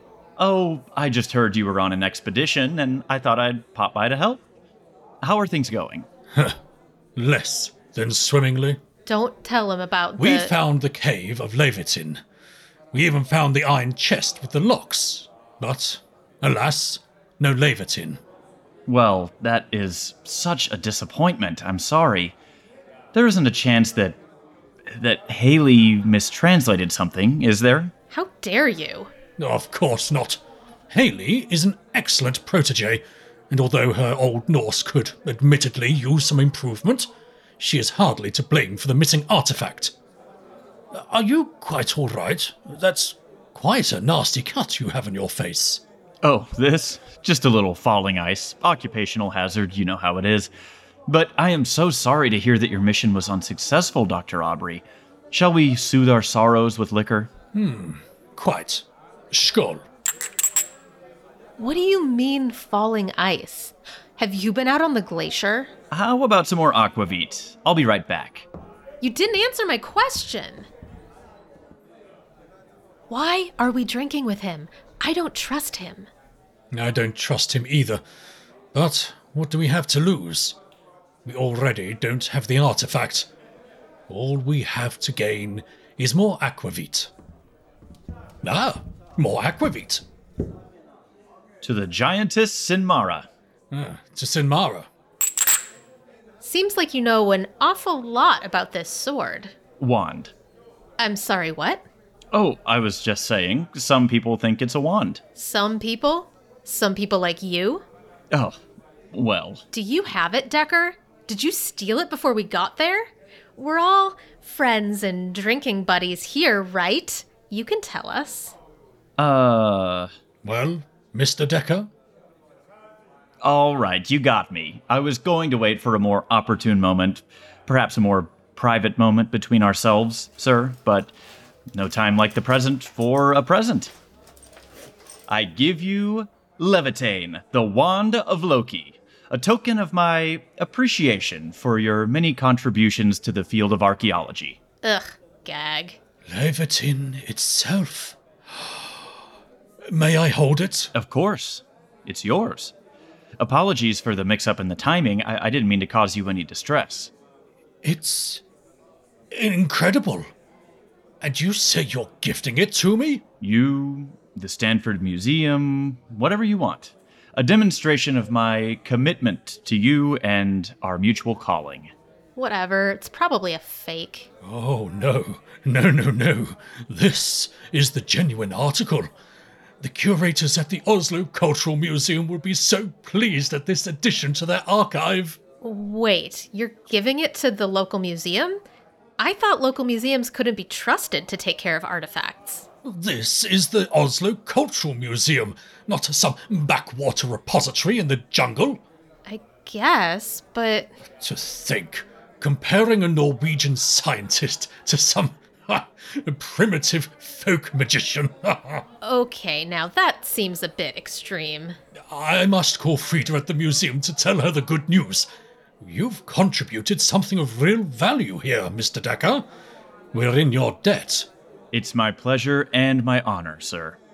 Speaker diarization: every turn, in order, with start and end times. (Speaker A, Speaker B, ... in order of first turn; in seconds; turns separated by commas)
Speaker A: 0.4-4.4, Speaker A: 5.2-6.1, Speaker B: 7.2-8.8, Speaker C: 9.1-10.5, Speaker B: 10.2-12.2, Speaker B: 12.9-18.2, Speaker A: 18.9-22.3, Speaker A: 23.1-24.2, Speaker A: 24.9-27.9, Speaker C: 28.1-29.1, Speaker B: 29.4-39.9, Speaker B: 40.9-45.8, Speaker A: 46.2-50.5, Speaker A: 51.1-57.3, Speaker B: 57.5-59.8, Speaker C: 61.6-65.7, Speaker A: 65.9-68.5, Speaker C: 69.0-70.7, Speaker C: 73.1-76.1, Speaker B: 76.7-78.0, Speaker B: 78.7-80.6, Speaker B: 81.2-83.3, Speaker B: 84.1-87.1, Speaker B: 88.4-90.0, Speaker A: 91.6-93.3, Speaker B: 93.7-94.9, Speaker C: 96.4-99.5, Speaker A: 99.8-100.3, Speaker C: 101.0-101.8, Speaker A: 102.3-105.2, Speaker C: 105.3-107.8, Speaker A: 108.3-108.6, Speaker A: 109.1-109.6, Speaker C: 109.7-118.5, Speaker A: 119.2-120.1, Speaker B: 120.4-121.9, Speaker A: 123.4-131.1, Speaker A: 131.7-133.9, Speaker A: 135.3-144.6, Speaker C: 144.8-146.0, Speaker B: 146.3-149.2, Speaker B: 149.9-150.9, Speaker A: 150.9-152.7, Speaker A: 153.4-157.1, Speaker B: 157.8-158.4, Speaker B: 159.3-160.3, Speaker B: 161.2-163.2, Speaker A: 163.4-171.9, Speaker C: 172.3-174.3, Speaker B: 174.4-179.1, Speaker B: 179.8-185.4, Speaker C: 185.6-188.6, Speaker C: 189.2-192.7, Speaker B: 192.8-198.8, Speaker C: 199.2-200.9, Speaker B: 201.2-208.8, Speaker C: 209.0-211.8, Speaker B: 212.1-215.3, Speaker B: 215.8-219.4, Speaker B: 220.1-221.3, Speaker A: 221.7-224.0